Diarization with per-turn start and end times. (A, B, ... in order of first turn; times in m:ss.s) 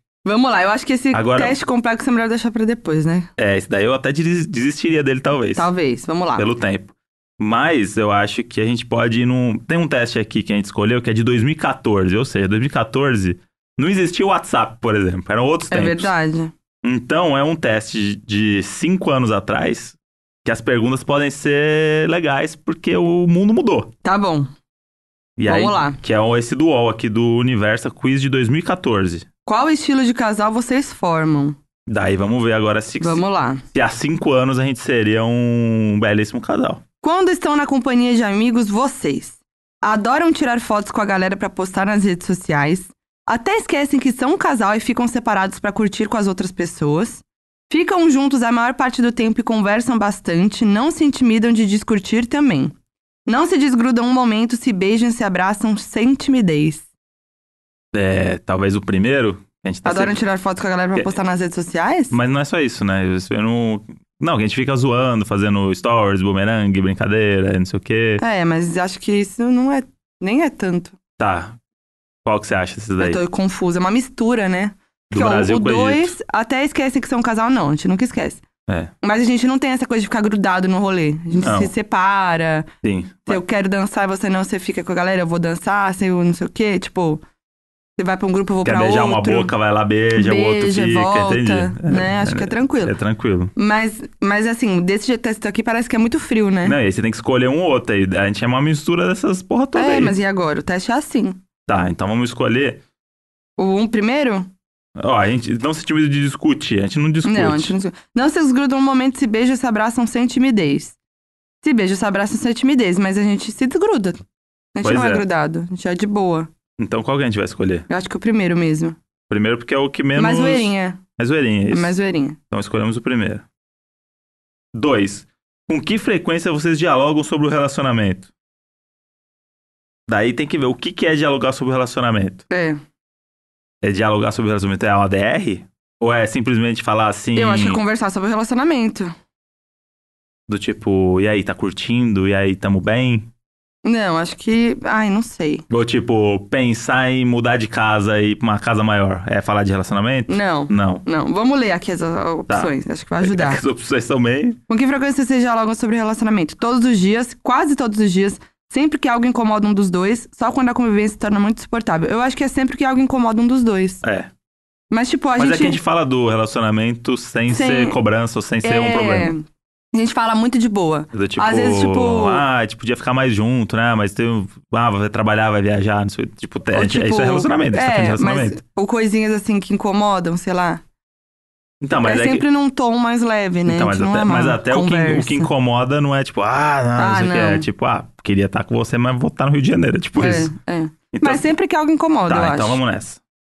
0:00.2-0:03.3 A
0:01.1-0:01.6 B
0:03.4-0:05.7 B
0:05.6-0:06.5 A
0:06.4-0:16.1 B
0:15.7-0:16.5 A
0:16.8-0:23.9 B
0:24.0-0:24.5 A
0:25.4-0:29.3 B
0:25.5-0:26.0 A
0:29.5-0:31.6 A
0:31.9-0:36.8 B
0:33.0-0:33.6 A
0:37.0-0:52.8 A
0:53.3-0:56.8 A
0:57.9-1:00.2 B
0:59.8-1:02.1 A
1:02.1-1:08.2 B
1:08.2-1:11.0 A
1:11.2-1:11.6 B
1:12.2-1:13.2 B
1:13.0-1:18.4 A
1:15.1-1:16.2 B
1:19.0-1:22.7 A
1:21.4-1:21.7 B
1:22.8-1:23.4 B
1:23.3-1:27.2 A
1:28.0-1:29.5 A
1:28.6-1:33.5 B
1:30.2-1:32.9 A
1:33.6-1:36.8 A
1:36.6-1:40.2 B
1:39.8-1:41.4 A
1:41.7-1:42.8 B
1:43.6-1:44.5 A
1:45.0-1:47.7 B
1:47.2-1:51.0 A
1:51.6-1:54.2 A
1:54.8-1:56.5 A
1:54.8-1:55.2 B
1:56.8-1:57.9 B
1:57.9-1:59.0 A
1:59.3-2:01.9 B
2:00.2-2:01.0 A
2:01.7-2:02.4 A
2:02.5-2:03.4 B
2:04.7-2:08.3 B
2:10.1-2:12.4 B
2:12.5-2:12.8 A
2:13.8-2:17.8 B
2:17.4-2:19.1 A
2:20.5-2:23.3 B
2:23.8-2:25.7 A
2:25.7-2:31.0 B
2:30.3-2:33.6 A
2:32.5-2:34.6 B
2:34.7-2:44.0 A
2:44.0-2:44.3 B
2:44.9-2:45.8 A
2:45.4-2:49.3 B
2:47.5-2:48.0 A
2:48.6-2:52.4 A
2:51.1-2:58.6 B
2:56.7-3:00.8 A
3:01.8-3:02.5 B
3:02.0-3:05.5 A
3:03.7-3:10.5 B
3:07.0-3:07.7 A
3:10.2-3:12.8 A
3:11.1-3:11.5 B
3:12.3-3:13.2 B